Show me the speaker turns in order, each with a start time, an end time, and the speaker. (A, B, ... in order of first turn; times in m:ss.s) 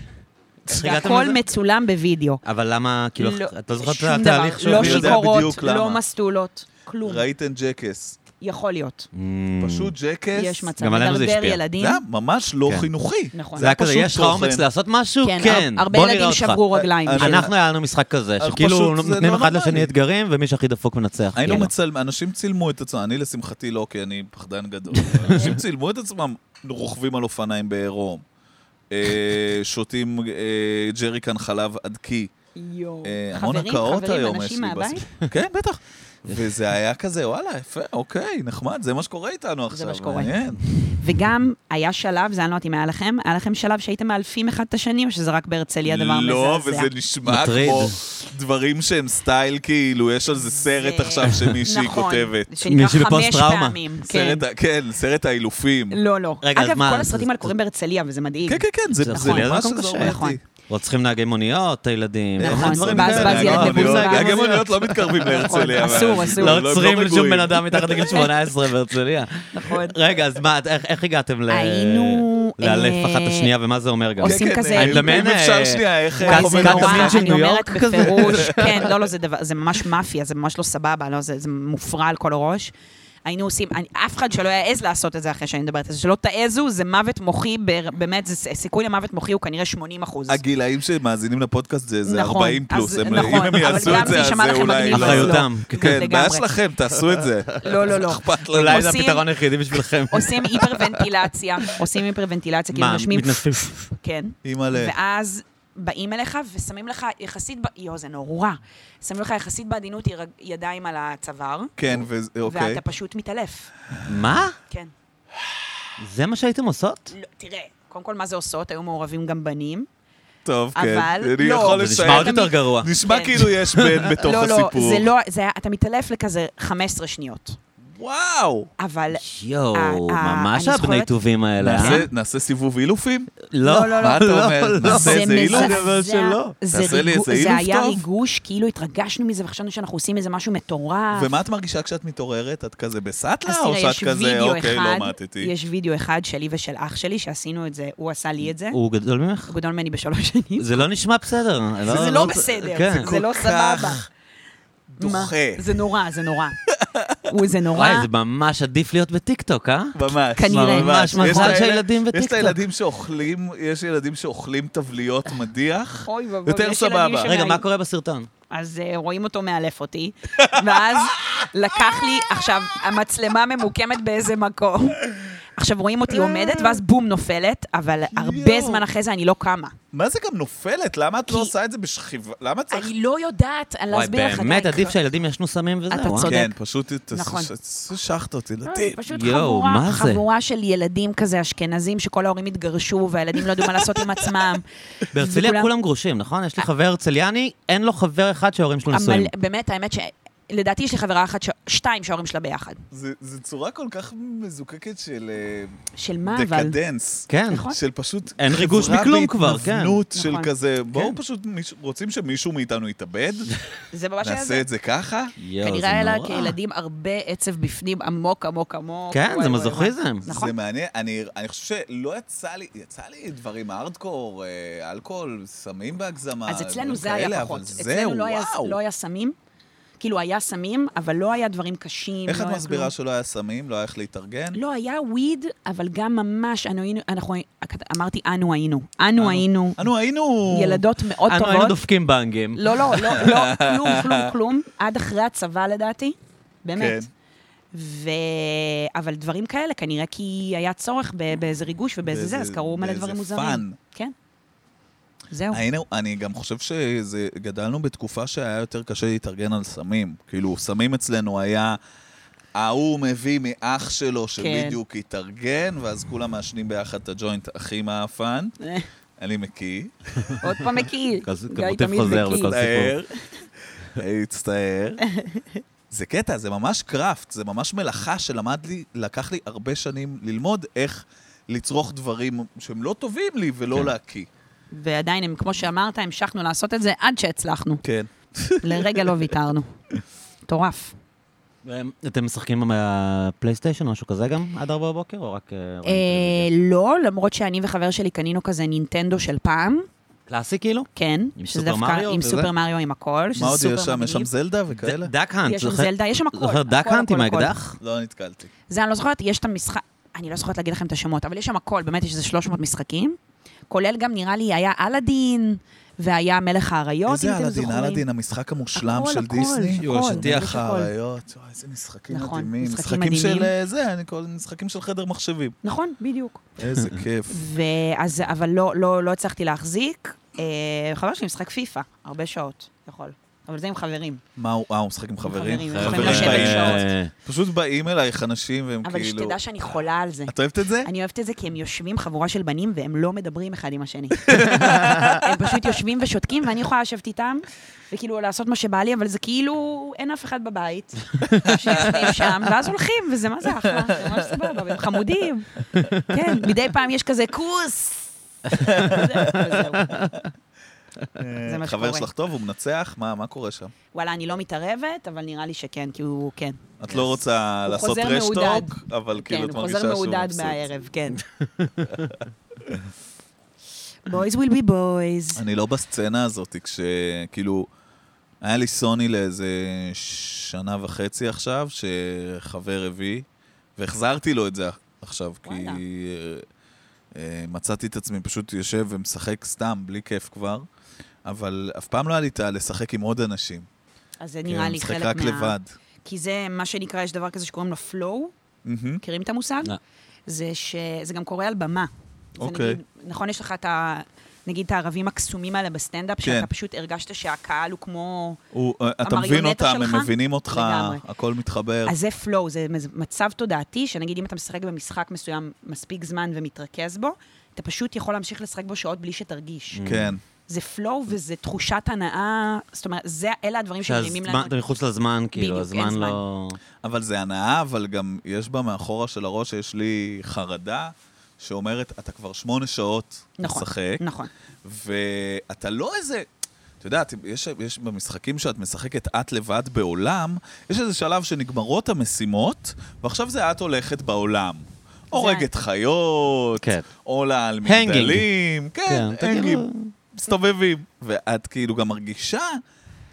0:00.7-0:01.4 A
0:00.7-0:02.4 B
0:02.4-0:05.2 A
0:03.2-0:07.3 B
0:04.6-0:06.0 C
0:07.0-0:08.2 C
0:08.4-0:09.1 B
0:09.1-0:09.9 A
0:09.6-0:10.7 C
0:10.3-0:12.0 B
0:10.8-0:11.6 A
0:11.8-0:14.6 C
0:13.3-0:13.7 B
0:13.6-0:21.7 A
0:15.2-0:17.5 B
0:16.7-0:17.5 C
0:18.4-0:19.9 C
0:21.4-0:28.2 C
0:25.0-0:25.5 A
0:28.9-0:32.3 C
0:32.6-0:35.1 B
0:33.0-0:40.6 C
0:36.3-0:36.5 A
0:39.7-0:40.4 B
0:40.9-0:46.9 B
0:45.8-0:52.5 C
0:47.3-0:48.0 A
0:50.6-0:54.4 B
0:51.3-0:51.6 A
0:52.6-0:53.8 A
0:54.1-0:56.0 C
0:55.9-1:00.4 B
0:56.4-0:57.5 A
0:58.5-1:00.4 C
0:59.0-1:18.9 A
1:02.4-1:08.4 C
1:02.4-1:06.7 B
1:09.5-1:10.0 B
1:11.5-1:13.5 B
1:14.2-1:15.3 B
1:14.2-1:17.3 C
1:16.2-1:22.7 B
1:18.0-1:18.9 C
1:23.3-1:30.4 B
1:30.3-1:39.0 C
1:32.0-1:36.5 B
1:33.5-1:36.0 A
1:37.0-1:37.8 A
1:37.6-1:39.2 B
1:38.3-1:41.0 A
1:40.1-1:51.8 B
1:42.7-1:43.9 A
1:44.4-1:45.0 C
1:51.8-1:52.8 C
1:52.5-1:53.7 B
1:54.1-1:54.6 A
1:56.0-1:57.1 A
1:57.1-1:59.9 B
2:00.4-2:05.1 C
2:00.8-2:03.5 B
2:01.7-2:04.2 A
2:04.2-2:07.6 B
2:07.9-2:08.7 C
2:08.8-2:11.1 B
2:09.1-2:12.1 A
2:11.6-2:15.8 C
2:11.7-2:12.0 B
2:13.5-2:16.5 A
2:13.6-2:14.2 B
2:14.8-2:21.3 B
2:16.7-2:18.0 C
2:21.1-2:25.5 C
2:23.5-2:28.8 B
2:28.7-2:29.5 A
2:29.5-2:30.9 B
2:30.6-2:33.2 A
2:31.8-2:34.0 B
2:31.9-2:32.3 C
2:33.0-2:34.0 C
2:34.9-2:35.7 C
2:35.0-2:36.6 B
2:36.7-2:37.3 C
2:37.3-2:38.1 B
2:37.8-2:42.6 A
2:39.9-2:47.3 C
2:40.4-2:41.6 B
2:46.0-2:47.6 B
2:47.2-2:48.3 A
2:48.5-2:59.8 B
2:50.4-2:52.9 C
2:56.1-2:56.8 C
2:58.1-2:58.8 C
2:59.9-3:02.9 C
3:01.3-3:01.5 B
3:02.7-3:05.0 B
3:03.9-3:06.4 A
3:05.9-3:06.5 B
3:06.3-3:09.0 C
3:07.1-3:07.5 B
3:08.7-3:15.7 B
3:09.1-3:10.2 A
3:15.1-3:19.3 A
3:18.9-3:22.8 B
3:22.9-3:33.5 C
3:26.0-3:26.8 B
3:27.3-3:27.7 A
3:27.5-3:27.8 B
3:28.4-3:30.0 A
3:30.1-3:30.5 B
3:33.9-3:34.6 B
3:34.2-3:35.4 C
3:35.4-3:36.6 A
3:35.6-3:40.6 B
3:39.1-3:40.2 A
3:40.2-3:48.8 C
3:46.5-3:49.4 B
3:50.0-3:52.9 B
3:52.3-3:54.6 C
3:54.5-3:59.8 B
3:59.2-4:00.8 C
4:00.5-4:01.8 B
4:01.3-4:02.6 A
4:02.6-4:07.0 B
4:02.9-4:04.3 C
4:06.8-4:07.1 C
4:07.7-4:14.1 B
4:12.1-4:13.8 C
4:15.3-4:15.6 B
4:15.5-4:21.8 C
4:22.6-4:28.5 C
4:24.4-4:24.8 B
4:28.6-4:28.9 B
4:29.2-4:30.6 C
4:30.4-4:32.5 B
4:31.2-4:33.0 A
4:32.1-4:33.2 C
4:33.8-4:35.0 C
4:35.0-4:35.6 B
4:35.9-4:44.3 C
4:44.7-4:47.8 B
4:47.8-4:49.3 C
4:48.6-4:49.7 B
4:50.5-4:51.0 B
4:51.6-4:56.5 A
4:55.8-4:59.9 B
5:00.3-5:02.5 A
5:01.0-5:04.3 B
5:03.4-5:05.1 C
5:04.8-5:07.8 A
5:05.5-5:07.6 B
5:07.8-5:08.5 C
5:08.7-5:13.2 B
5:13.7-5:18.0 B
5:17.1-5:25.6 C
5:18.8-5:20.9 B
5:19.8-5:20.6 A
5:22.1-5:23.5 B
5:25.6-5:26.4 B
5:26.6-5:27.4 C
5:27.3-5:34.2 B
5:34.4-5:39.4 C
5:35.2-5:36.9 B
5:35.7-5:37.1 A
5:38.8-6:00.1 B
5:40.3-5:40.9 C
5:44.2-5:45.6 C
5:51.5-5:52.1 C
5:53.7-5:54.8 C
5:58.5-6:00.2 C
6:01.2-6:03.7 C
6:01.4-6:02.1 B
6:03.9-6:06.6 B
6:06.8-6:10.7 C
6:07.7-6:11.2 B
6:11.4-6:12.2 A
6:14.1-6:15.4 B
6:15.4-6:17.7 C
6:18.4-6:23.3 C
6:23.8-6:26.4 C
6:25.4-6:25.8 B
6:27.2-6:30.7 C
6:31.2-6:33.7 C
6:34.2-6:38.3 B
6:34.5-6:35.7 C
6:38.6-6:39.0 C
6:39.0-6:39.7 B
6:40.3-6:48.4 B
6:42.4-6:42.8 C
6:46.2-6:46.5 C
6:48.5-6:52.0 C
6:49.0-6:51.0 B
6:51.8-6:59.8 B
6:59.7-7:00.2 A
6:59.8-7:00.2 C
7:00.5-7:04.6 B
7:03.8-7:06.6 A
7:05.4-7:06.2 B
7:06.8-7:14.0 C
7:13.4-7:14.3 B
7:14.6-7:16.3 C
7:16.8-7:32.6 C
7:25.1-7:25.5 B
7:26.6-7:26.9 A
7:27.6-7:28.3 A
7:28.9-7:29.9 A